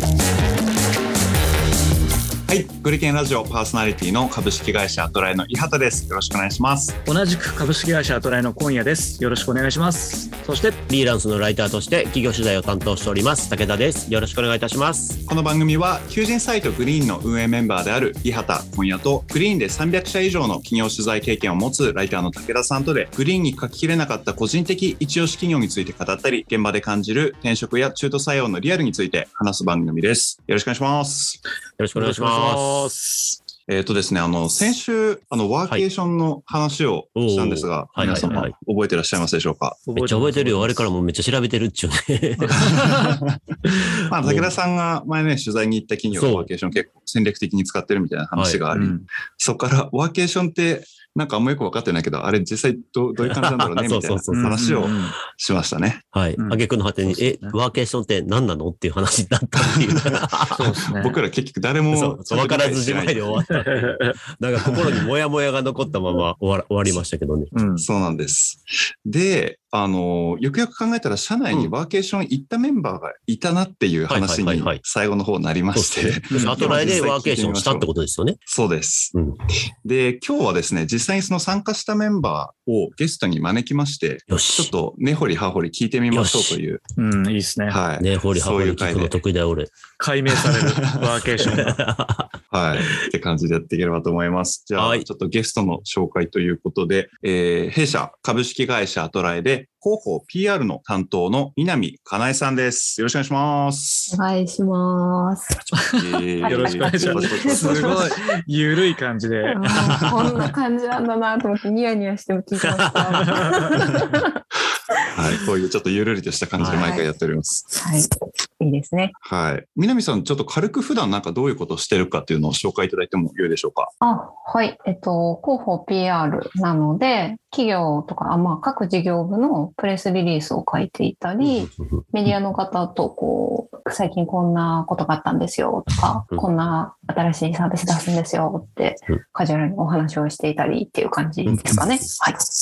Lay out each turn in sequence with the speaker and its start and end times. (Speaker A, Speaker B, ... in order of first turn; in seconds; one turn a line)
Speaker A: 2.5-7.0
Speaker B: 7.0-10.8
Speaker C: 10.9-15.2
Speaker A: 15.3-31.4
Speaker C: 31.8-32.9
Speaker B: 31.9-33.4
Speaker A: 33.7-39.8
Speaker C: 37.2-38.5
Speaker B: 38.0-38.5
Speaker B: 39.9-40.8
Speaker C: 40.0-43.2
Speaker B: 42.4-43.9
Speaker A: 42.7-43.3
Speaker A: 44.0-56.0
Speaker C: 44.2-44.5
Speaker C: 46.1-46.5
Speaker C: 48.4-48.6
Speaker B: 48.7-49.0
Speaker C: 53.2-54.9
Speaker B: 54.3-55.1
Speaker C: 56.1-60.8
Speaker B: 56.4-57.6
Speaker A: 59.7-60.2
Speaker B: 60.5-61.2
Speaker A: 60.9-63.4
Speaker C: 61.9-67.5
Speaker B: 63.5-64.2
Speaker B: 67.5-67.9
Speaker A: 67.8-77.9
Speaker C: 74.1-74.8
Speaker C: 75.7-78.4
Speaker B: 76.3-77.0
Speaker A: 78.5-79.1
Speaker C: 79.1-79.4
Speaker A: 79.8-86.8
Speaker C: 84.3-84.7
Speaker C: 86.1-86.6
Speaker B: 87.0-87.8
Speaker A: 87.7-89.2
Speaker C: 88.0-89.7
Speaker B: 90.0-91.8
Speaker A: 90.5-91.2
Speaker C: 91.4-92.3
Speaker A: 92.5-104.1
Speaker C: 94.8-95.0
Speaker D: 104.1-105.6
Speaker A: 105.9-108.2
Speaker B: 106.4-110.1
Speaker D: 106.4-108.1
Speaker D: 109.5-114.4
Speaker A: 109.7-110.1
Speaker C: 112.8-113.3
Speaker B: 113.2-113.6
Speaker A: 115.1-117.7
Speaker C: 116.6-116.9
Speaker D: 116.7-117.1
Speaker D: 117.8-119.1
Speaker A: 119.2-123.9
Speaker D: 124.0-142.4
Speaker C: 131.4-132.0